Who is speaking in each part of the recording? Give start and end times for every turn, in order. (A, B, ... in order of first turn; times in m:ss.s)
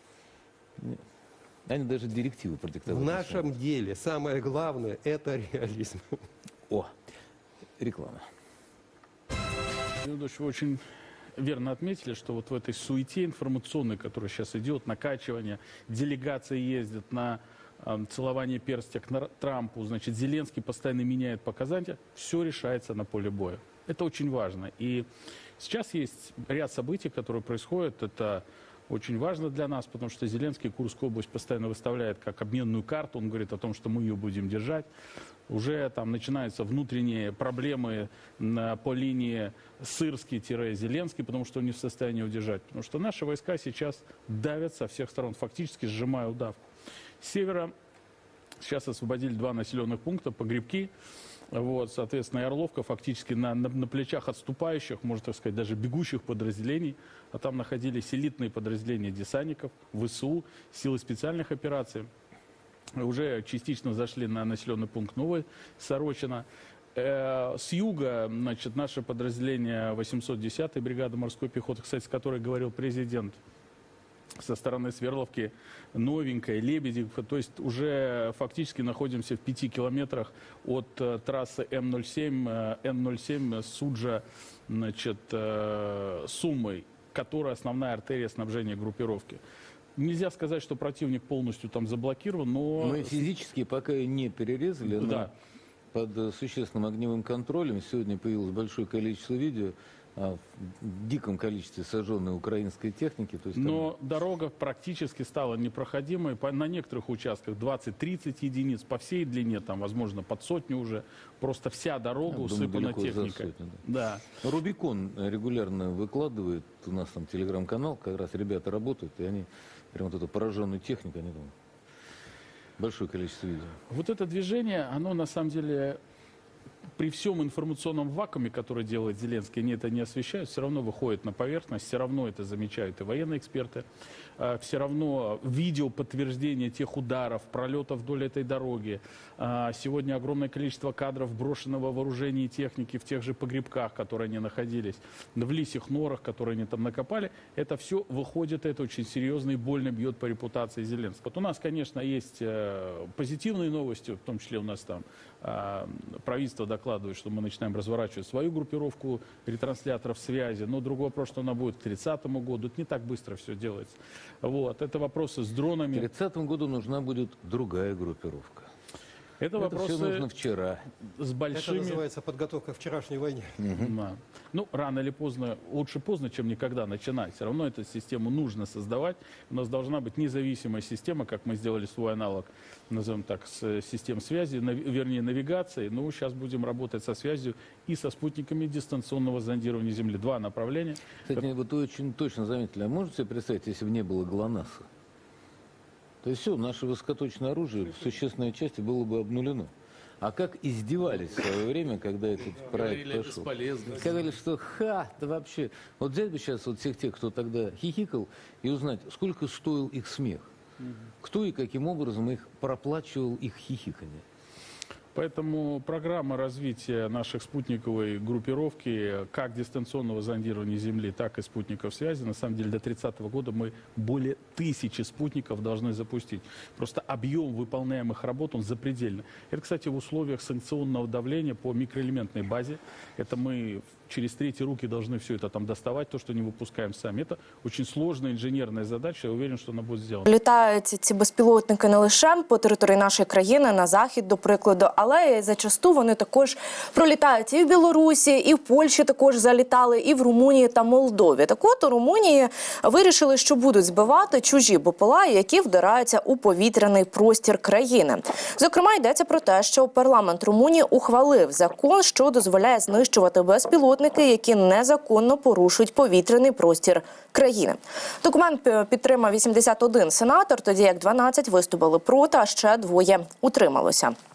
0:00.8-0:01.0 A
0:01.7-0:03.4 A
0:02.8-0:06.2 B
0:07.8-0:08.2 A
0:10.0-0:10.8 C
0:11.4-0:25.0 C
0:25.6-0:34.9 C
0:35.5-0:46.6 C
0:47.2-0:47.7 C
0:48.6-0:50.9 C
0:51.5-1:02.1 C
1:03.0-1:13.4 C
1:14.4-1:29.4 C
1:30.0-1:33.2 C
1:32.8-1:35.3 A
1:34.9-1:35.3 C
1:35.9-1:43.9 A
1:43.5-1:54.3 C
1:52.3-1:53.8 A
1:54.4-2:01.5 A
2:02.8-2:03.8 A
2:03.9-2:06.0 C
2:07.0-2:13.8 C
2:14.4-2:46.1 C
2:45.9-2:48.7 A
2:49.4-2:50.2 C
2:49.6-2:50.8 A
2:51.2-2:52.0 C
2:51.5-2:53.6 B
2:53.6-2:53.9 A
2:53.8-3:11.1 C
3:11.2-3:14.9 A
3:16.2-3:30.5 A
3:31.2-3:34.2 A
3:35.1-4:00.2 C
4:00.3-4:34.1 D